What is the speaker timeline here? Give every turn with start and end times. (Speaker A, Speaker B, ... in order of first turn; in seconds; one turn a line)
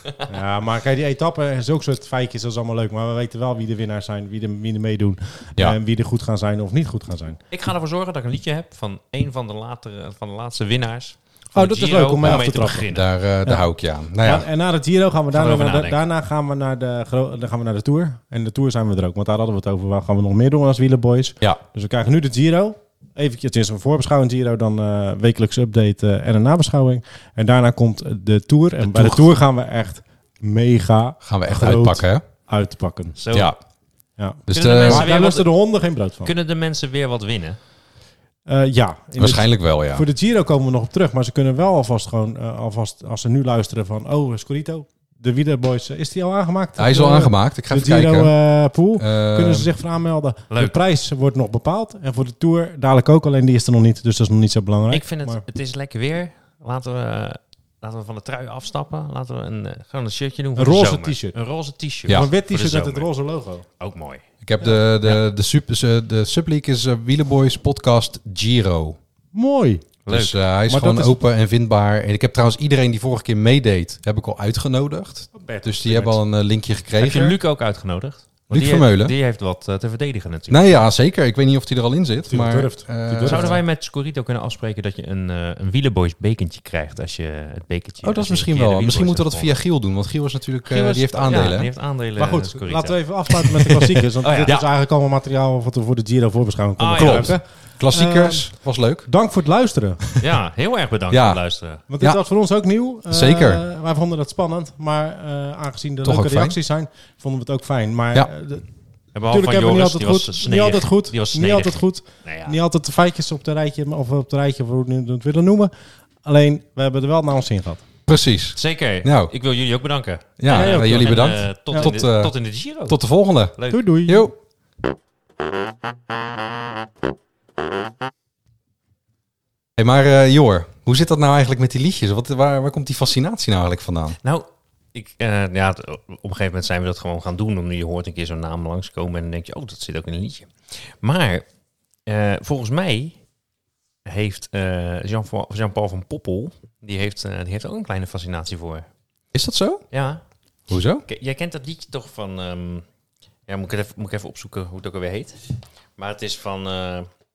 Speaker A: 0.3-7.4
Speaker B: 7.5-13.2
Speaker A: 11.5-12.9
Speaker C: 12.2-14.4
Speaker A: 14.2-33.2
Speaker B: 15.3-16.1
Speaker C: 28.8-29.3
Speaker C: 31.2-32.2
Speaker B: 33.1-33.5
Speaker C: 33.3-33.5
Speaker A: 34.2-36.3
Speaker C: 34.5-35.1
Speaker B: 34.5-35.5
Speaker B: 36.2-37.6
Speaker A: 38.5-55.4
Speaker C: 39.1-40.0
Speaker C: 46.8-48.3
Speaker C: 48.9-49.7
Speaker B: 50.5-50.8
Speaker B: 54.9-63.1
Speaker A: 60.5-61.3
Speaker A: 62.1-63.6
Speaker B: 63.8-64.2
Speaker C: 64.4-69.0
Speaker A: 69.3-69.9
Speaker B: 70.0-70.4
Speaker C: 70.1-77.4
Speaker A: 70.7-71.2
Speaker A: 75.3-76.2
Speaker B: 76.9-80.8
Speaker C: 78.5-79.1
Speaker C: 80.5-83.6
Speaker A: 82.3-83.6
Speaker B: 83.2-89.6
Speaker C: 88.0-91.7
Speaker B: 90.6-93.6
Speaker A: 92.2-100.0
Speaker B: 94.2-94.6
Speaker C: 94.4-94.7
Speaker B: 96.8-97.4
Speaker C: 96.9-99.1
Speaker B: 100.2-101.8
Speaker C: 101.1-101.4
Speaker A: 101.9-108.6
Speaker C: 103.1-103.6
Speaker C: 106.0-106.5
Speaker B: 109.1-112.6
Speaker A: 109.3-115.7
Speaker A: 116.2-117.8
Speaker C: 118.1-119.3
Speaker B: 118.5-123.8
Speaker C: 120.4-124.3
Speaker A: 120.5-121.9
Speaker A: 123.7-124.3
Speaker C: 129.8-134.2
Speaker B: 134.2-141.4
Speaker B: 142.1-143.2
Speaker B: 144.1-148.8
Speaker C: 149.3-149.8
Speaker B: 149.9-150.2
Speaker C: 150.7-151.0
Speaker B: 151.0-152.8
Speaker B: 153.5-155.4
Speaker B: 156.0-157.1